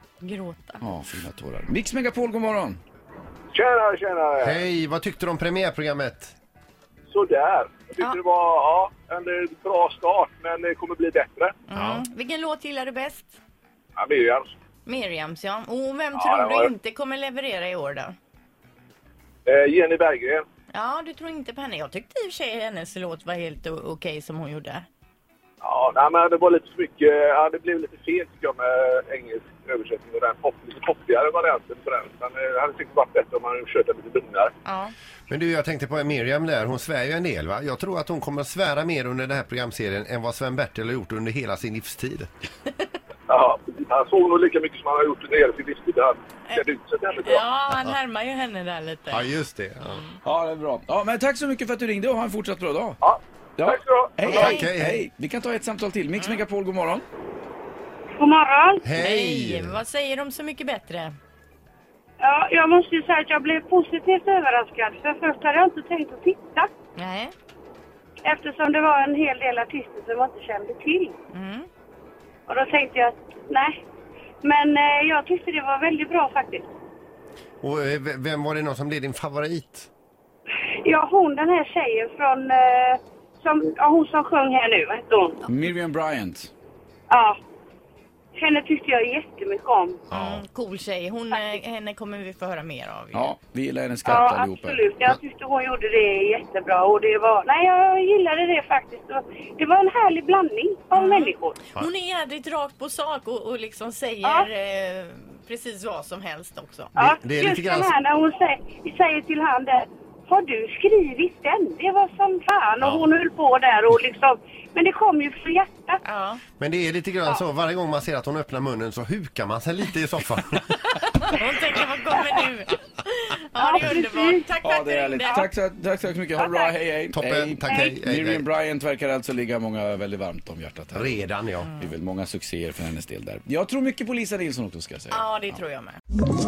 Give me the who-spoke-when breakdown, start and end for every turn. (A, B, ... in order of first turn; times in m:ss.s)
0:00.2-0:00.8 A
0:00.8-0:02.8 B
0:03.5-0:04.6 C
0:04.4-0:06.3 D
0:07.1-0:11.5 C
0:11.7-0:13.4 A
0:11.7-0:12.0 D
0:14.0-0:14.5 C
0:14.8-0:18.1 A
0:16.1-0:16.7 C
0:19.4-0:20.4 C
0:20.7-0:24.8 A
0:25.6-0:34.5 C
0:34.6-0:34.9 A
0:35.3-0:42.3 D
0:43.3-0:47.4 C
0:47.2-0:49.3 A
0:49.1-0:50.0 D
0:50.2-0:53.0 B
0:53.0-0:54.4 C
0:53.6-0:57.0 B
0:54.2-0:55.0 D
0:54.2-0:54.6 A
0:58.2-0:58.8 E
0:58.8-0:59.8 D
0:59.0-1:01.1 A
1:02.2-1:06.7 E
1:07.0-1:07.3 A
1:08.2-1:11.2 E
1:11.3-1:11.7 A
1:12.5-1:13.8 E
1:14.4-1:16.7 E
1:17.6-1:19.9 D
1:20.7-1:25.4 E
1:25.4-1:26.5 B
1:27.1-1:27.4 E
1:28.3-1:30.0 E
1:30.1-1:30.4 D
1:30.1-1:33.3 A
1:33.1-1:35.2 B
1:34.0-1:41.6 E
1:40.9-1:46.9 A
1:47.0-1:56.0 E
1:47.0-1:47.9 D
1:56.0-1:56.4 A
1:56.6-2:01.2 D
2:01.4-2:05.4 A
2:03.6-2:04.5 E
2:04.6-2:11.2 B
2:05.2-2:05.5 E
2:06.4-2:06.7 E
2:07.1-2:08.4 D
2:10.9-2:11.7 D
2:11.6-2:11.9 A
2:11.8-2:15.6 B
2:15.1-2:16.0 A